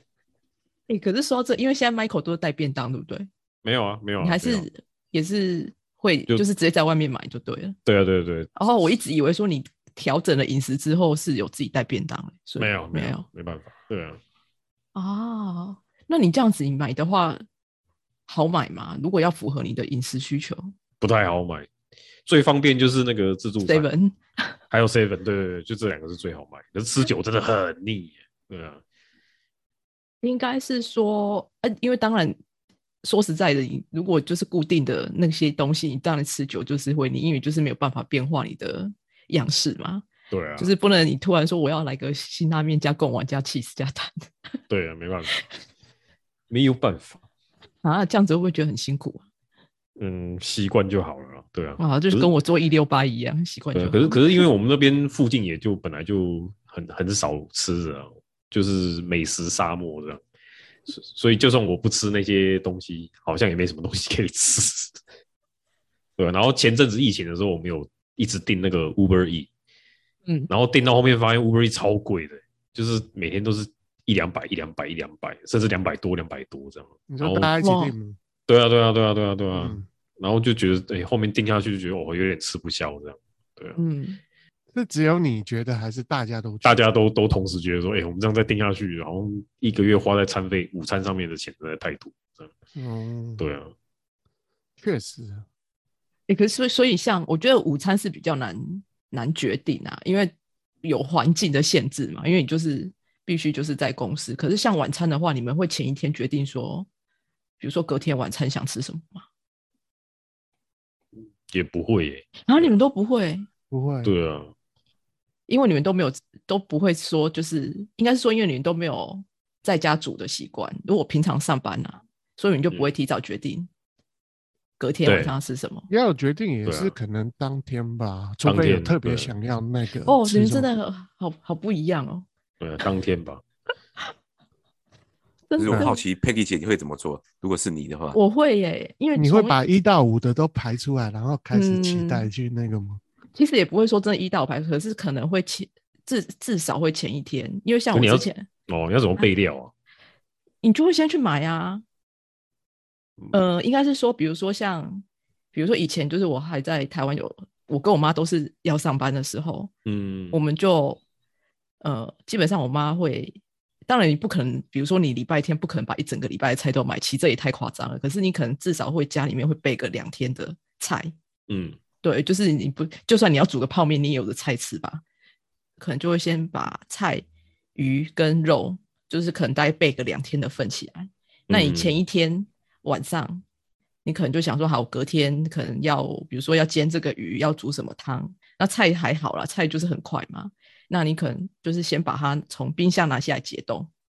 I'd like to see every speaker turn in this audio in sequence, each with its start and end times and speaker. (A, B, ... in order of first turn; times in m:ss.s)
0:00.9-0:03.3 A
0:03.6-0:04.6 B
0:04.2-0:07.8 A
0:07.8-0:08.6 B
0:08.6-0:13.2 A
0:12.6-0:14.2 B
0:14.9-0:17.4 A
0:18.3-0:20.7 A
0:21.0-0:21.7 B
0:22.2-0:23.9 B
0:23.6-0:24.5 A
0:24.7-0:28.8 B
0:30.2-0:32.4 A
0:33.0-0:40.0 A
0:40.3-0:40.7 B
0:40.6-0:44.2 A
0:44.7-0:45.4 B
0:46.5-0:47.2 B
0:47.8-0:49.2 A
0:50.0-0:52.3 B
0:51.8-0:54.4 A
0:53.7-1:00.2 B
1:00.9-1:05.0 B
1:06.2-1:09.5 B
1:10.5-1:17.5 B
1:17.1-1:18.2 C
1:17.6-1:17.9 A
1:18.5-1:23.8 B
1:19.5-1:19.9 C
1:23.8-1:24.2 A
1:24.7-1:26.8 C
1:26.6-1:32.5 B
1:32.8-1:33.4 C
1:33.4-1:33.7 B
1:34.8-1:35.4 C
1:36.3-1:46.9 A
1:47.6-1:49.2 A
1:51.5-1:52.7 B
1:52.5-1:53.5 A
1:53.7-1:54.1 C
1:54.0-1:54.5 B
1:55.5-2:03.7 A
2:04.8-2:05.9 A
2:05.0-2:05.3 B
2:05.9-2:10.7 C
2:06.6-2:06.9 B
2:08.4-2:09.3 B
2:10.1-2:12.2 A
2:12.6-2:13.4 B
2:15.5-2:16.0 A
2:15.6-2:18.2 D
2:18.1-2:19.6 A
2:19.1-2:23.0 C
2:21.5-2:22.3 A
2:23.3-2:28.5 A
2:27.9-2:29.7 B
2:30.6-2:31.8 A
2:33.3-2:39.7 A
2:39.8-2:40.4 B
2:40.3-2:41.0 A
2:41.8-2:51.1 A
2:51.5-2:51.8 B
2:52.0-2:55.0 A
2:55.8-2:57.2 A
2:57.8-3:03.4 A
3:01.5-3:02.0 B
3:04.0-3:13.9 A